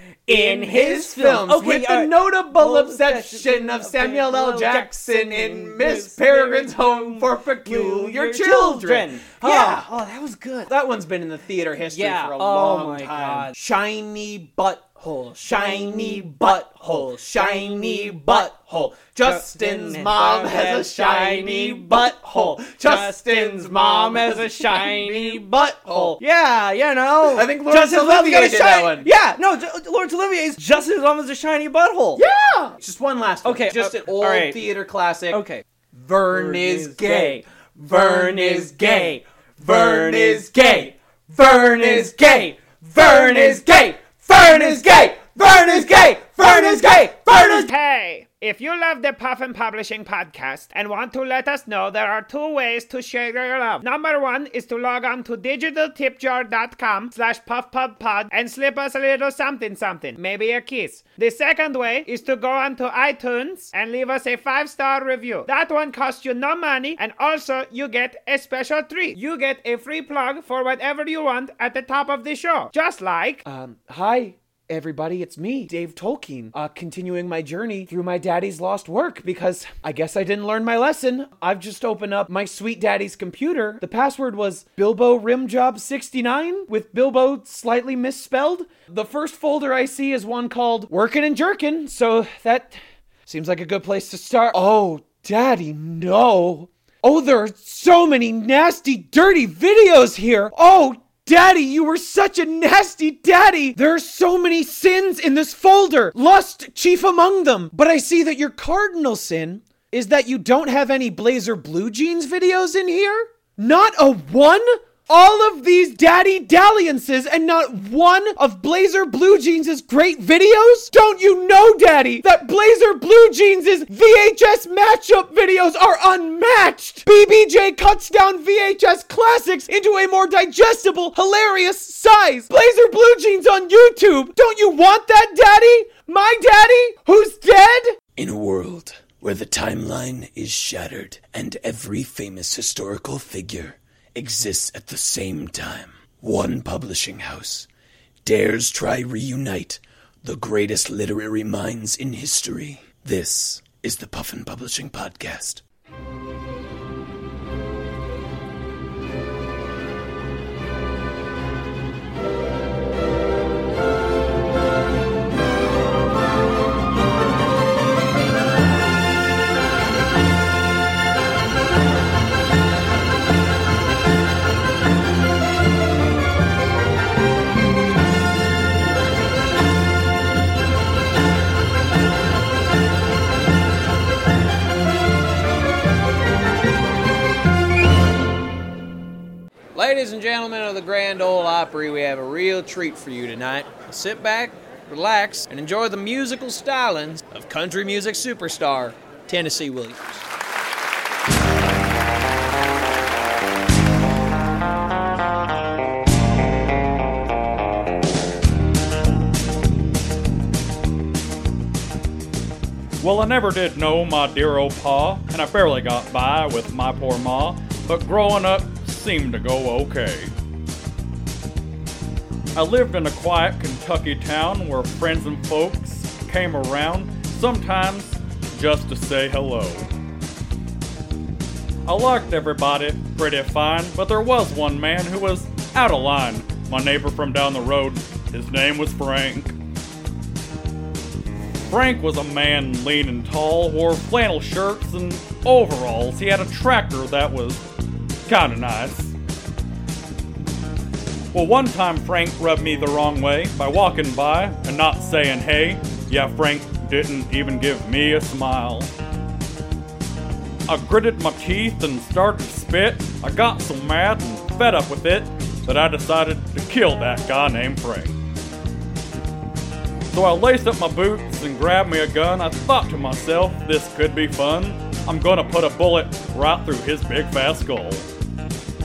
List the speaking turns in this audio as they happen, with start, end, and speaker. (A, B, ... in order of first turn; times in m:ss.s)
0:00.3-0:09.9 A
0:00.3-0:10.7 B
0:10.6-0:26.2 A
0:11.8-0:13.6 B
0:15.0-0:32.2 B
0:27.3-0:29.1 A
0:32.2-0:47.6 A
0:33.4-0:35.6 B
0:36.2-0:47.6 B
0:47.3-1:13.4 C
1:13.4-2:18.0 A
2:18.2-2:27.6 D
2:28.2-2:35.6 D
3:09.7-3:20.2 A
3:33.0-3:40.3 E
3:42.5-3:49.9 E
3:51.8-3:59.5 E
4:01.7-4:07.6 E
4:08.2-4:09.1 E
4:11.3-4:18.9 E
4:20.7-4:28.2 E
4:30.1-4:38.0 E